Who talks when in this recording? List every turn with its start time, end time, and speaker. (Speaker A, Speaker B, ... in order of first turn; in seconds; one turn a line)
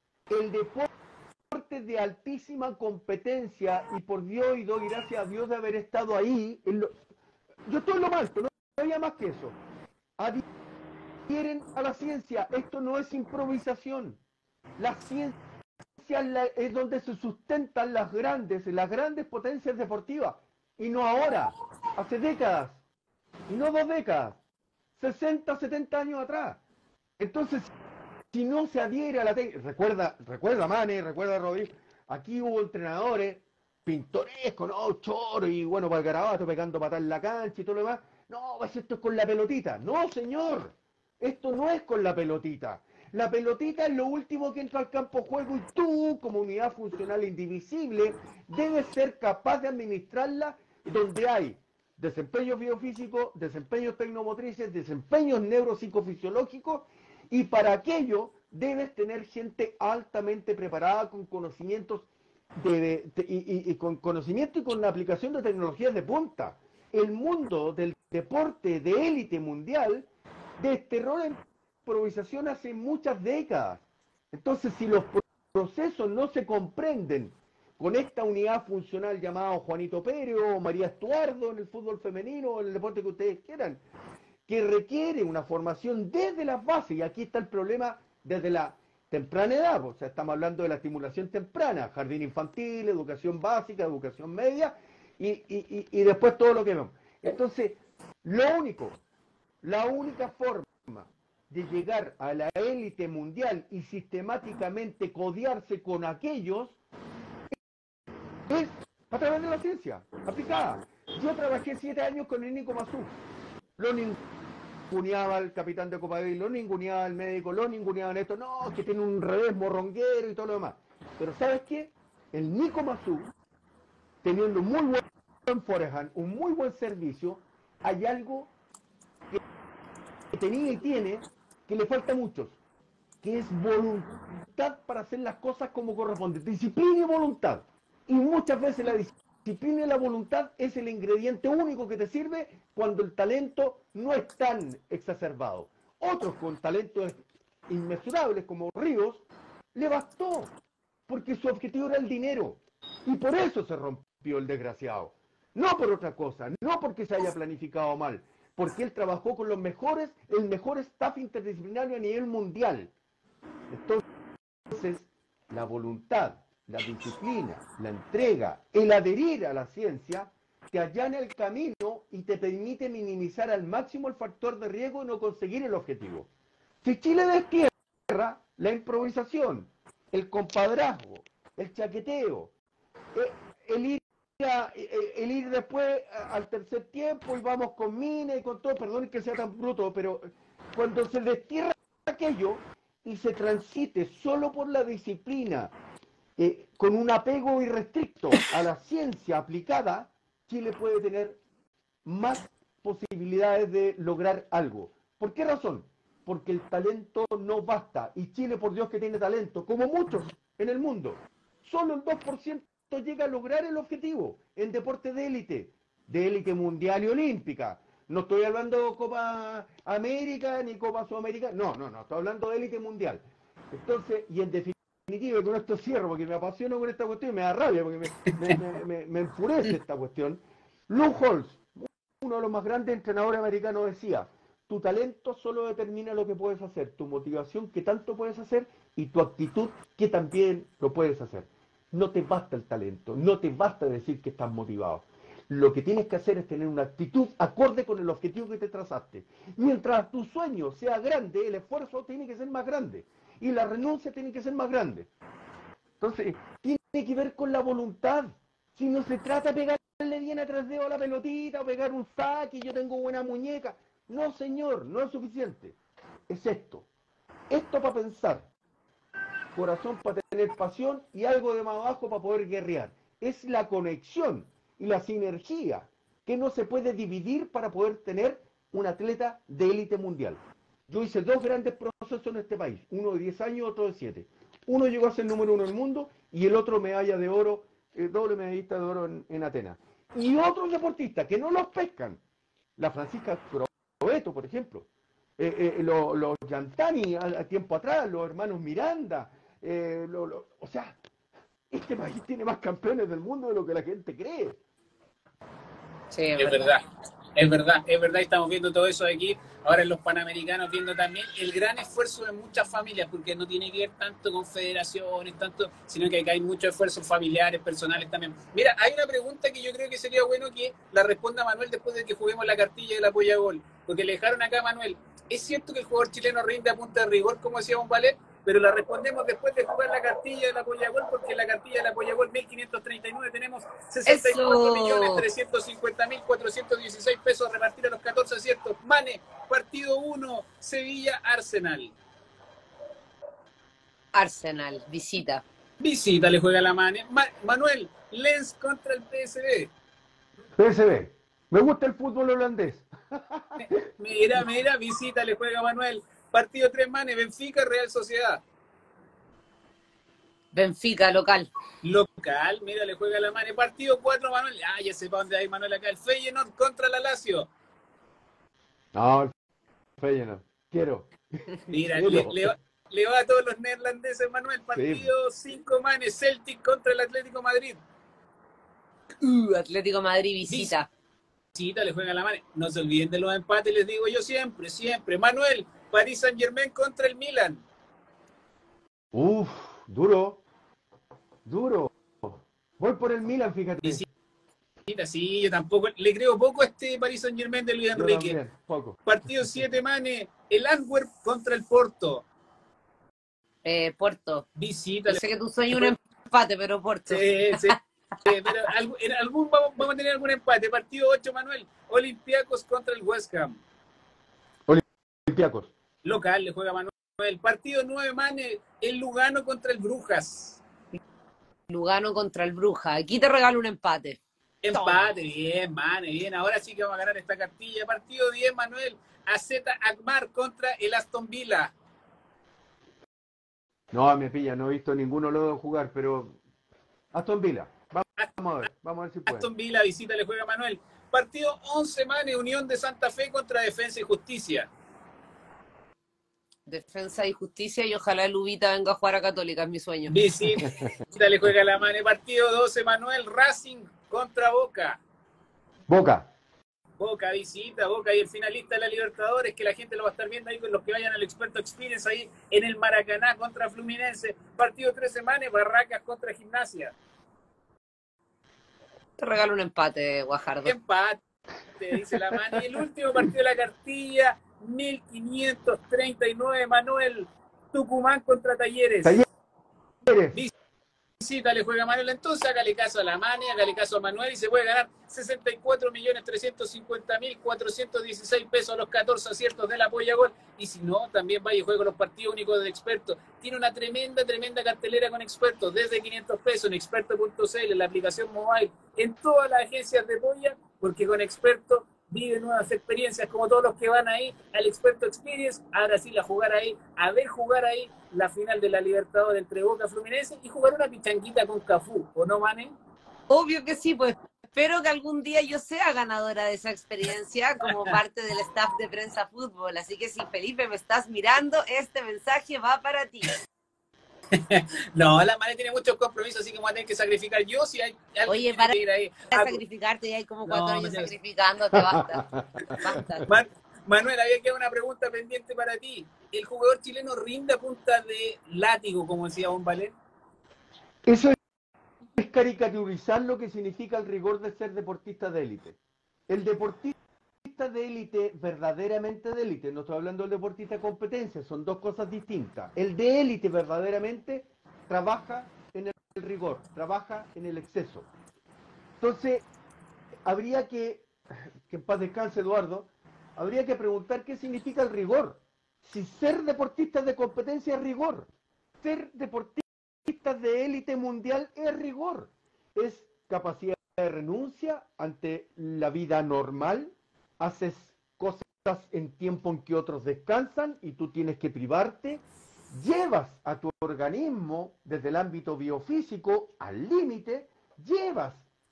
Speaker A: 0.3-0.9
Speaker A: 1.5-6.9
Speaker A: 7.7-9.6
Speaker A: 10.2-10.4
Speaker A: 11.3-14.2
Speaker A: 14.8-15.3
Speaker A: 16.0-22.8
Speaker A: 23.5-24.4
Speaker A: 24.9-26.6
Speaker A: 27.2-27.7
Speaker A: 28.3-83.8
Speaker A: 84.5-99.0
Speaker A: 99.6-106.8
Speaker A: 108.5-113.2
Speaker A: 113.8-114.2
Speaker A: 114.9-123.3
Speaker A: 124.2-128.5
Speaker A: 130.3-132.6
Speaker A: 133.2-150.5
Speaker A: 151.1-162.9
Speaker A: 163.7-164.0
Speaker A: 164.7-176.3
Speaker A: 176.8-182.5
Speaker A: 183.1-195.7
Speaker A: 196.4-201.4
Speaker A: 202.0-255.1
Speaker A: 256.0-265.8
Speaker A: 266.3-266.9
Speaker A: 267.5-268.5
Speaker A: 269.5-292.2
Speaker A: 292.8-301.0
Speaker A: 301.7-304.6
Speaker B: 306.1-306.7
Speaker C: 306.4-341.9
Speaker B: 334.1-335.2
Speaker B: 344.1-345.4
Speaker C: 345.8-349.7
Speaker A: 350.6-353.8
Speaker C: 354.0-358.4
Speaker B: 360.5-361.5
Speaker C: 361.8-367.5
Speaker A: 368.9-369.3
Speaker A: 370.0-372.5
Speaker C: 371.7-377.8
Speaker A: 374.7-375.1
Speaker B: 379.2-380.9
Speaker C: 380.5-380.7
Speaker C: 381.5-387.6
Speaker A: 389.1-390.4
Speaker A: 391.4-394.1
Speaker C: 394.9-398.4
Speaker A: 397.9-399.5
Speaker C: 399.1-402.2
Speaker B: 403.6-404.4
Speaker C: 404.6-405.9
Speaker B: 405.1-407.8
Speaker C: 407.1-413.6
Speaker A: 414.7-415.7
Speaker C: 416.0-420.6
Speaker B: 421.7-424.2
Speaker C: 424.6-431.7
Speaker B: 424.7-425.1
Speaker A: 433.9-436.4
Speaker A: 437.1-439.5
Speaker C: 439.3-444.7
Speaker B: 446.7-450.2
Speaker C: 450.1-455.0
Speaker A: 450.6-450.9
Speaker A: 455.9-456.3
Speaker C: 457.0-466.9
Speaker B: 469.2-470.7
Speaker C: 470.6-471.2
Speaker C: 471.8-479.2
Speaker A: 472.3-472.6
Speaker A: 480.0-480.4
Speaker C: 481.2-512.7
Speaker B: 513.3-523.4
Speaker C: 517.7-518.0
Speaker C: 524.3-529.6
Speaker B: 528.3-528.8
Speaker B: 529.3-533.3
Speaker C: 530.4-531.1
Speaker A: 531.7-533.1
Speaker C: 533.3-539.9
Speaker A: 541.0-541.4
Speaker A: 542.2-545.8
Speaker A: 546.3-558.1
Speaker A: 559.0-559.4
Speaker A: 560.2-561.1
Speaker A: 561.6-568.3
Speaker A: 568.8-588.5